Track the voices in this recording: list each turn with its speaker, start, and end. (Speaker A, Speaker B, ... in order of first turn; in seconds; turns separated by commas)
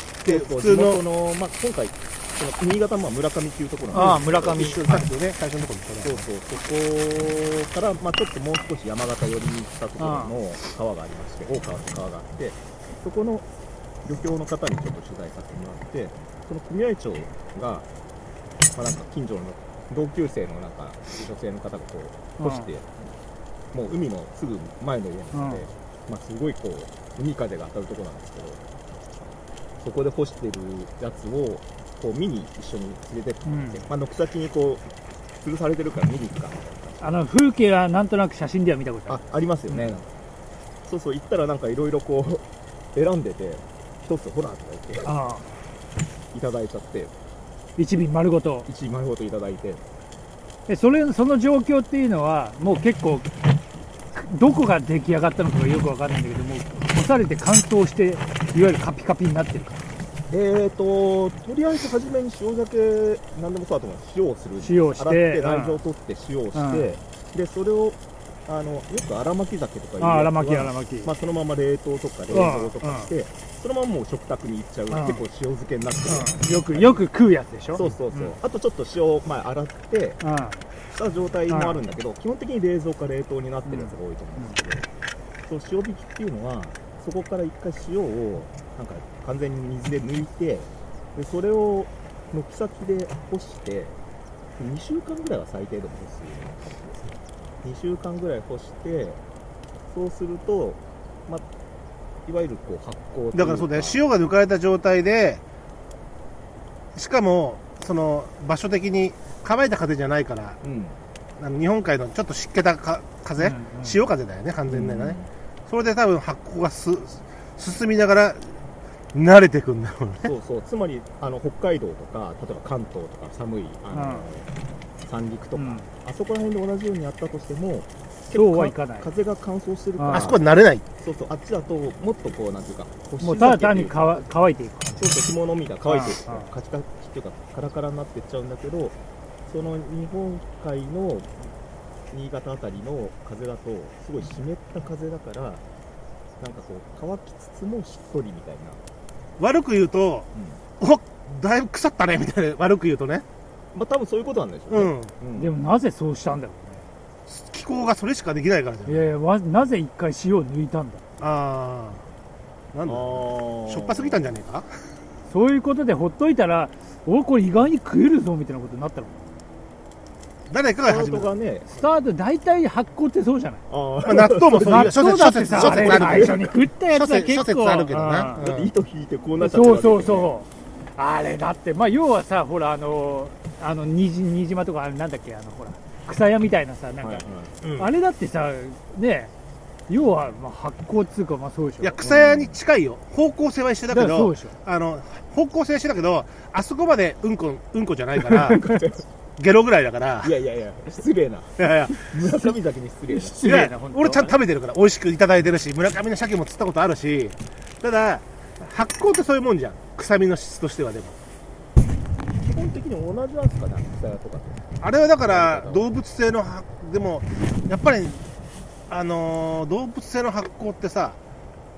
Speaker A: 0.2-1.0, Speaker B: 0.2-5.0, Speaker C: 3.9-5.1, Speaker A: 3.9-6.2, Speaker B: 6.0-13.4, Speaker C: 10.0-10.4, Speaker B: 14.0-17.9, Speaker B: 18.7-22.9, Speaker C: 22.4-22.7, Speaker B: 23.7-28.6, Speaker C: 25.3-25.7, Speaker B: 29.8-34.9, Speaker C: 33.4-33.8, Speaker B: 35.4-37.2, Speaker C: 37.0-40.0, Speaker B: 39.1-40.1, Speaker B: 40.8-45.1, Speaker C: 45.0-45.5, Speaker B: 46.3-47.1, Speaker C: 47.8-48.7, Speaker B: 48.6-49.8, Speaker C: 50.7-53.5, Speaker C: 54.1-59.8, Speaker B: 60.3-77.1, Speaker C: 64.6-65.8, Speaker C: 66.5-67.0, Speaker C: 70.0-71.1, Speaker C: 72.3-73.1, Speaker C: 74.9-75.2, Speaker C: 76.0-78.3, Speaker B: 77.7-80.2, Speaker C: 80.2-80.7, Speaker B: 80.9-84.9, Speaker C: 81.5-81.8, Speaker C: 83.7-84.6, Speaker B: 85.5-94.0, Speaker B: 94.6-96.8, Speaker B: 97.6-99.2, Speaker B: 99.9-101.4, Speaker B: 102.2-104.0, Speaker A: 103.3-105.4, Speaker A: 106.9-110.6, Speaker B: 110.6-111.0, Speaker A: 111.4-118.5, Speaker C: 113.4-114.0, Speaker B: 114.7-115.3, Speaker A: 119.1-120.3, Speaker B: 120.2-124.5, Speaker C: 123.9-124.3, Speaker B: 125.0-130.4, Speaker C: 125.5-125.9, Speaker C: 128.3-129.1, Speaker C: 129.9-130.3, Speaker A: 130.1-130.8, Speaker B: 131.0-134.1, Speaker C: 133.2-135.2, Speaker B: 135.0-139.0, Speaker C: 135.8-136.5, Speaker B: 139.5-141.5, Speaker B: 142.1-145.6, Speaker B: 146.4-148.8, Speaker A: 149.4-150.3, Speaker B: 150.3-150.6, Speaker A: 150.8-153.2, Speaker B: 153.7-155.5, Speaker A: 154.7-155.1, Speaker C: 155.3-156.9, Speaker A: 157.3-159.1, Speaker C: 158.8-161.0, Speaker A: 161.2-162.0, Speaker A: 162.7-164.7, Speaker B: 162.9-164.3, Speaker C: 165.3-169.2, Speaker A: 170.5-171.3, Speaker B: 170.8-171.8, Speaker C: 171.7-173.6, Speaker B: 173.7-174.9, Speaker A: 174.0-178.7, Speaker C: 174.6-178.5, Speaker B: 175.5-176.4, Speaker B: 178.3-180.3, Speaker C: 179.4-189.3, Speaker B: 187.0-187.5, Speaker A: 187.6-187.9, Speaker C: 189.9-192.1, Speaker A: 191.8-198.7, Speaker B: 192.0-192.6, Speaker C: 193.9-194.6, Speaker B: 198.4-199.0, Speaker A: 199.4-200.3, Speaker B: 200.2-203.5, Speaker A: 201.6-202.1, Speaker C: 202.2-202.5, Speaker C: 203.1-204.4, Speaker A: 203.4-211.1, Speaker B: 212.3-215.9, Speaker A: 214.8-218.2, Speaker A: 218.9-221.2